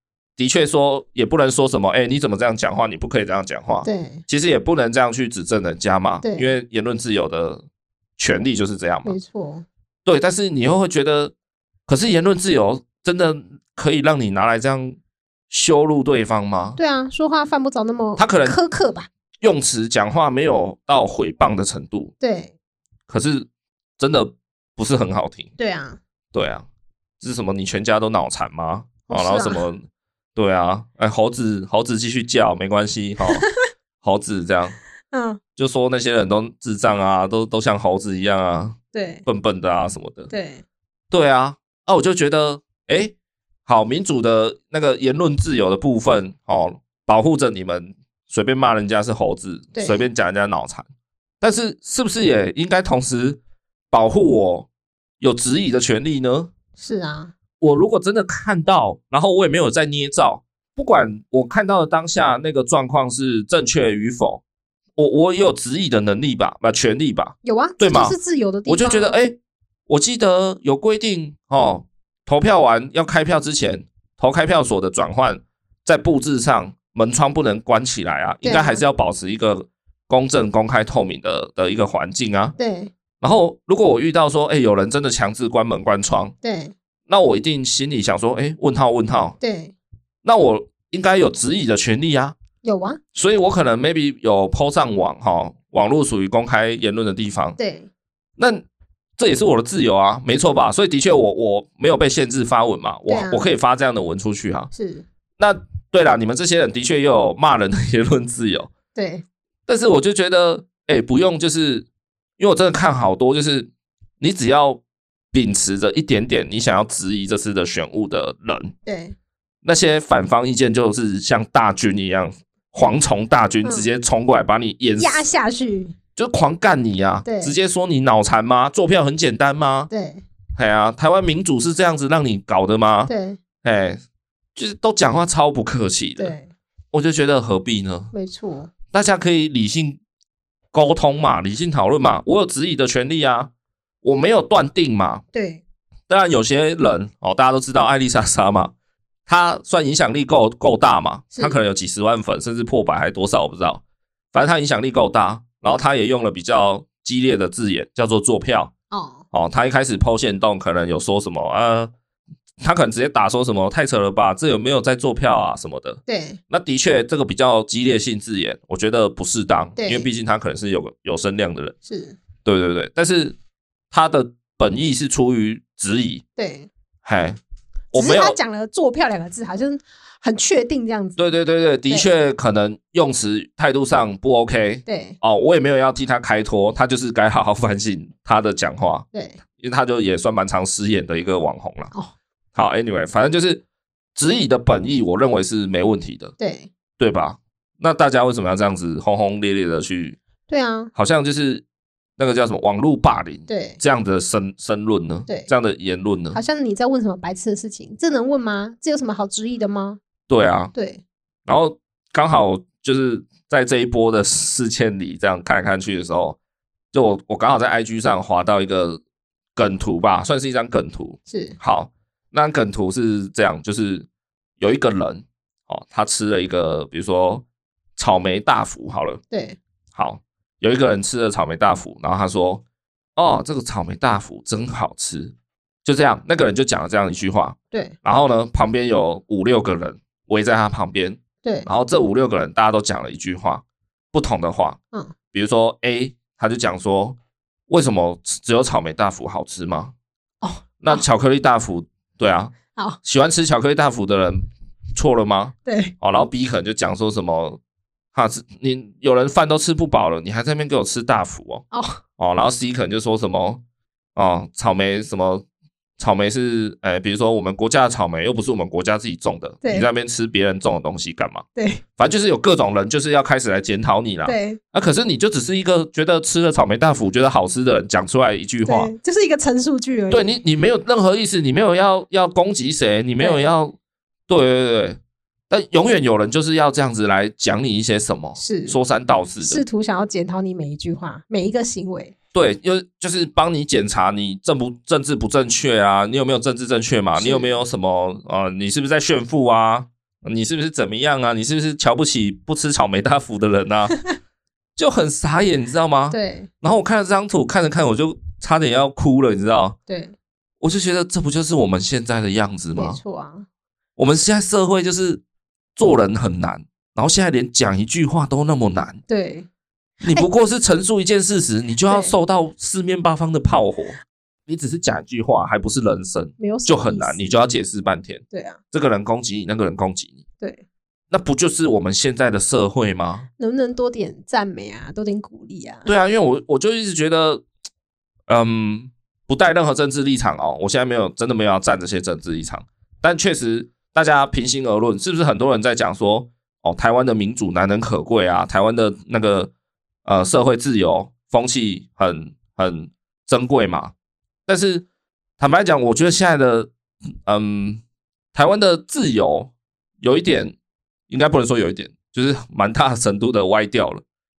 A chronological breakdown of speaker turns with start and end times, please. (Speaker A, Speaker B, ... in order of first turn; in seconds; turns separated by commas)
Speaker A: 0.4-7.6, Speaker B: 3.8-4.2, Speaker B: 6.2-6.5, Speaker A: 8.2-9.2, Speaker B: 9.0-9.6, Speaker A: 10.0-11.3, Speaker A: 11.9-15.0, Speaker A: 15.5-16.8, Speaker B: 16.8-19.1, Speaker A: 18.2-18.6, Speaker A: 19.4-22.1, Speaker B: 22.2-22.5, Speaker A: 23.1-23.5, Speaker A: 24.0-25.5, Speaker B: 25.6-26.0, Speaker A: 26.3-26.7, Speaker A: 27.2-29.8, Speaker B: 29.1-29.6, Speaker A: 30.4-33.4, Speaker A: 34.0-34.8, Speaker B: 35.1-35.4, Speaker A: 35.6-40.3, Speaker B: 38.9-39.2, Speaker B: 40.3-40.6, Speaker A: 41.1-43.1, Speaker A: 43.6-50.9, Speaker B: 49.7-50.0, Speaker A: 51.4-53.4, Speaker A: 53.9-54.7, Speaker A: 55.2-56.5, Speaker B: 56.8-57.3, Speaker A: 57.6-64.4, Speaker A: 65.0-68.2, Speaker B: 67.4-69.2, Speaker A: 68.7-82.5, Speaker B: 78.4-78.8, Speaker B: 82.6-82.9, Speaker A: 83.2-86.3, Speaker B: 86.4-86.7, Speaker A: 87.1-89.3, Speaker B: 89.4-89.7, Speaker A: 90.2-92.3, Speaker B: 92.6-93.0, Speaker A: 93.1-97.6, Speaker B: 97.6-97.9, Speaker A: 98.4-98.6, Speaker A: 99.2-104.7, Speaker B: 103.1-103.5, Speaker B: 104.7-105.0, Speaker A: 105.4-108.7, Speaker B: 108.9-109.2, Speaker A: 109.7-111.9, Speaker A: 112.4-118.7, Speaker B: 118.8-119.1, Speaker A: 119.6-125.2, Speaker B: 125.0-125.9, Speaker A: 126.2-129.9, Speaker B: 127.2-127.5, Speaker B: 129.9-130.2, Speaker A: 130.6-133.1, Speaker B: 133.1-133.4, Speaker A: 133.6-134.0, Speaker A: 134.5-136.3, Speaker B: 136.2-136.5, Speaker A: 136.9-138.1, Speaker B: 138.1-138.7, Speaker A: 138.9-140.0, Speaker A: 140.7-143.5, Speaker A: 144.0-145.2, Speaker B: 145.3-145.6, Speaker A: 146.1-148.7, Speaker A: 149.3-153.8, Speaker A: 154.3-158.7, Speaker B: 158.9-159.2, Speaker A: 159.3-161.9, Speaker A: 162.6-171.7, Speaker B: 166.1-166.4, Speaker B: 169.8-170.1, Speaker B: 171.8-172.2, Speaker A: 172.4-173.3, Speaker A: 173.9-176.2, Speaker B: 176.3-176.7, Speaker A: 177.0-177.4, Speaker A: 177.9-178.4, Speaker B: 177.9-181.2, Speaker A: 181.2-189.1, Speaker B: 184.8-185.2, Speaker B: 189.1-189.4, Speaker A: 189.6-191.9, Speaker A: 192.5-193.6, Speaker A: 194.2-196.3, Speaker B: 196.4-196.7, Speaker A: 197.0-200.2, Speaker B: 200.5-200.9, Speaker A: 200.9-201.6, Speaker A: 202.2-206.4, Speaker B: 203.5-203.8, Speaker B: 206.3-210.0, Speaker A: 210.3-210.7, Speaker B: 210.7-211.0, Speaker A: 211.4-216.4, Speaker A: 216.9-219.0, Speaker A: 219.6-224.1, Speaker B: 221.3-221.6, Speaker A: 224.6-227.4, Speaker A: 228.0-229.2, Speaker B: 229.3-229.6, Speaker A: 229.9-232.6, Speaker A: 233.2-235.3, Speaker A: 235.8-244.8, Speaker B: 241.4-241.7, Speaker A: 245.3-247.2, Speaker A: 247.7-249.9, Speaker B: 250.4-251.0, Speaker A: 250.8-257.6, Speaker B: 255.7-255.9, Speaker A: 258.1-261.6, Speaker B: 261.7-262.0, Speaker A: 262.2-263.6, Speaker A: 264.1-265.4, Speaker A: 266.0-271.4, Speaker B: 269.6-269.9, Speaker B: 271.5-271.8, Speaker A: 272.0-278.9, Speaker B: 274.2-274.6, Speaker B: 278.6-280.4, Speaker A: 280.1-283.8, Speaker A: 284.3-285.0, Speaker A: 285.5-289.6, Speaker B: 288.4-288.8, Speaker B: 289.4-292.1, Speaker A: 292.3-303.9, Speaker B: 297.1-297.5, Speaker A: 304.8-309.8, Speaker B: 306.1-306.5, Speaker B: 309.9-310.1, Speaker A: 310.6-313.0, Speaker B: 312.8-313.4, Speaker A: 314.0-315.2, Speaker A: 315.8-319.0, Speaker B: 319.1-319.5, Speaker A: 320.0-323.9, Speaker B: 321.9-322.1, Speaker A: 324.5-330.2, Speaker B: 326.4-327.3, Speaker B: 328.3-328.6, Speaker A: 331.1-333.3, Speaker B: 333.4-335.9, Speaker A: 335.9-337.4, Speaker A: 338.3-349.5, Speaker A: 350.0-353.9, Speaker A: 354.5-354.9, Speaker A: 355.4-356.7, Speaker A: 357.2-357.8, Speaker A: 358.3-360.5, Speaker A: 361.1-364.0